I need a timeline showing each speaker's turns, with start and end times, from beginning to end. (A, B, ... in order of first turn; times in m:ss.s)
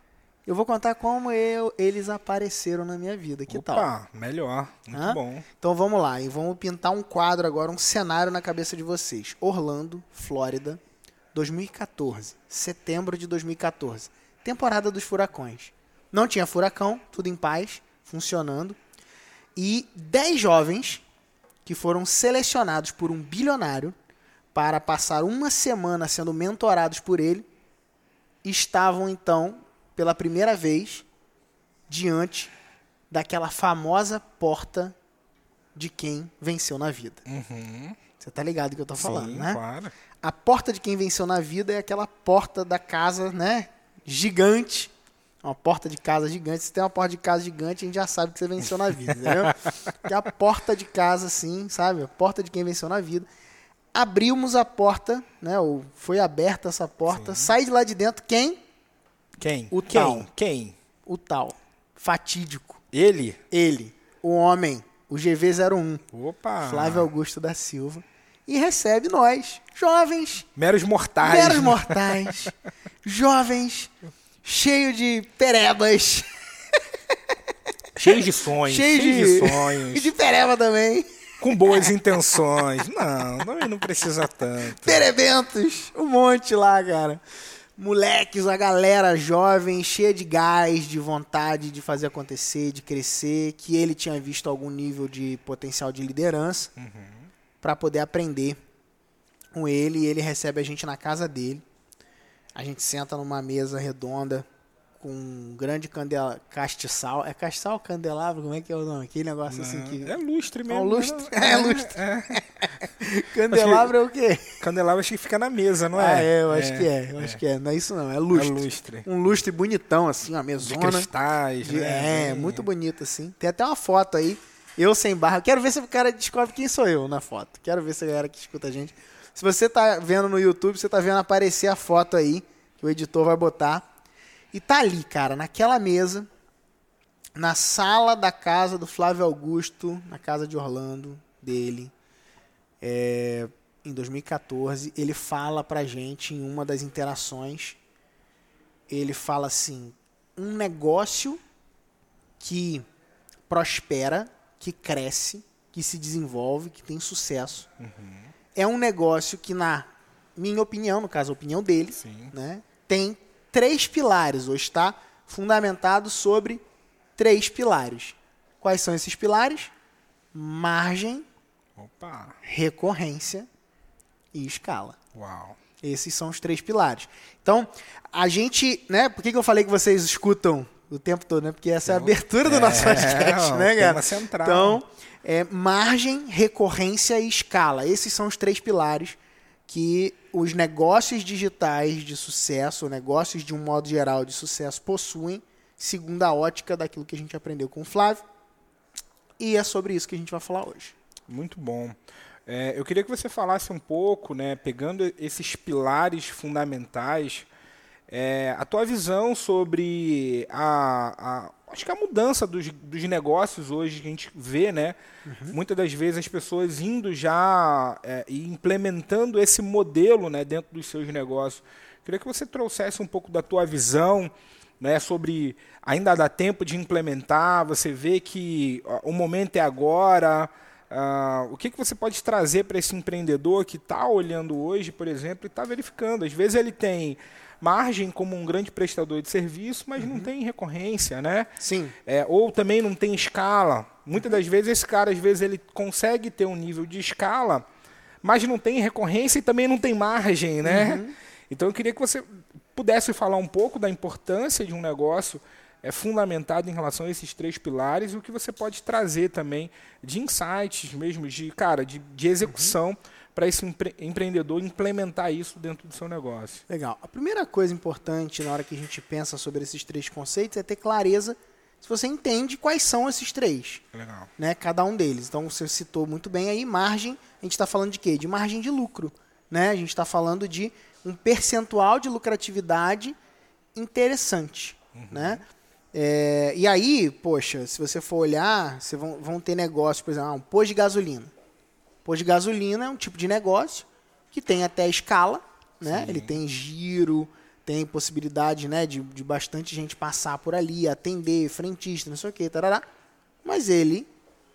0:00.4-0:03.9 A
0:03.5-0:05.4 B
0:04.9-0:10.8 A
0:11.3-0:18.8 A
0:19.6-0:21.0 A
0:21.6-0:23.9 A
0:24.5-0:27.5 A
0:28.4-0:31.0 A
0:31.9-0:32.5 A
0:33.1-0:35.0 A
0:35.7-0:37.2 A
0:37.2-0:38.0 B
0:38.2-0:39.6 A
0:39.0-0:39.9 B
0:40.2-0:44.9 A
0:45.4-0:53.2 A
0:49.2-0:49.5 B
0:53.9-0:58.6 A
0:57.1-0:57.5 B
0:59.4-1:00.8 B
0:59.7-1:00.3 A
1:01.0-1:02.8 A
1:02.9-1:03.4 B
1:03.5-1:06.0 A
1:06.1-1:07.1 B
1:06.6-1:10.5 A
1:10.6-1:12.5 B
1:11.2-1:13.9 A
1:14.4-1:17.1 A
1:18.0-1:20.1 B
1:18.1-1:22.6 A
1:21.4-1:25.1 B
1:24.6-1:27.2 A
1:27.8-1:36.7 A
1:36.8-1:37.3 B
1:37.6-1:38.6 A
1:39.5-1:41.6 A
1:42.5-1:44.4 A
1:45.0-1:54.6 A
1:49.5-1:52.6 B
1:53.5-1:53.9 B
1:54.6-1:57.4 B
1:55.9-2:01.1 A
1:58.3-1:59.1 B
2:00.6-2:02.6 B
2:01.6-2:13.8 A
2:14.5-2:16.3 A
2:17.4-2:21.9 A
2:22.8-2:27.8 A
2:28.9-2:31.4 A
2:32.4-2:32.8 A
2:33.5-2:37.7 A
2:37.8-2:38.3 B
2:38.5-2:46.6 A
2:42.0-2:42.3 B
2:47.2-2:49.7 A
2:50.3-2:51.2 A
2:51.8-2:52.4 B
2:52.4-2:53.5 A
2:54.3-2:55.0 A
2:55.1-2:55.6 B
2:55.8-3:18.2 A
3:01.8-3:04.8 B
3:19.4-3:20.9 A
3:21.3-3:27.5 B
3:28.1-3:35.0 B
3:35.2-3:35.6 A
3:35.5-4:01.5 B
4:00.0-4:00.3 A
4:01.6-4:02.0 A
4:02.0-4:07.6 B
4:08.2-4:26.6 B
4:10.6-4:11.1 A
4:22.4-4:22.7 A
4:26.7-4:33.8 A
4:33.9-4:34.3 B
4:34.4-4:43.2 A
4:43.8-4:51.3 A
4:44.9-4:45.4 B
4:52.0-5:02.8 A
4:55.8-4:56.4 B
5:03.4-5:04.1 A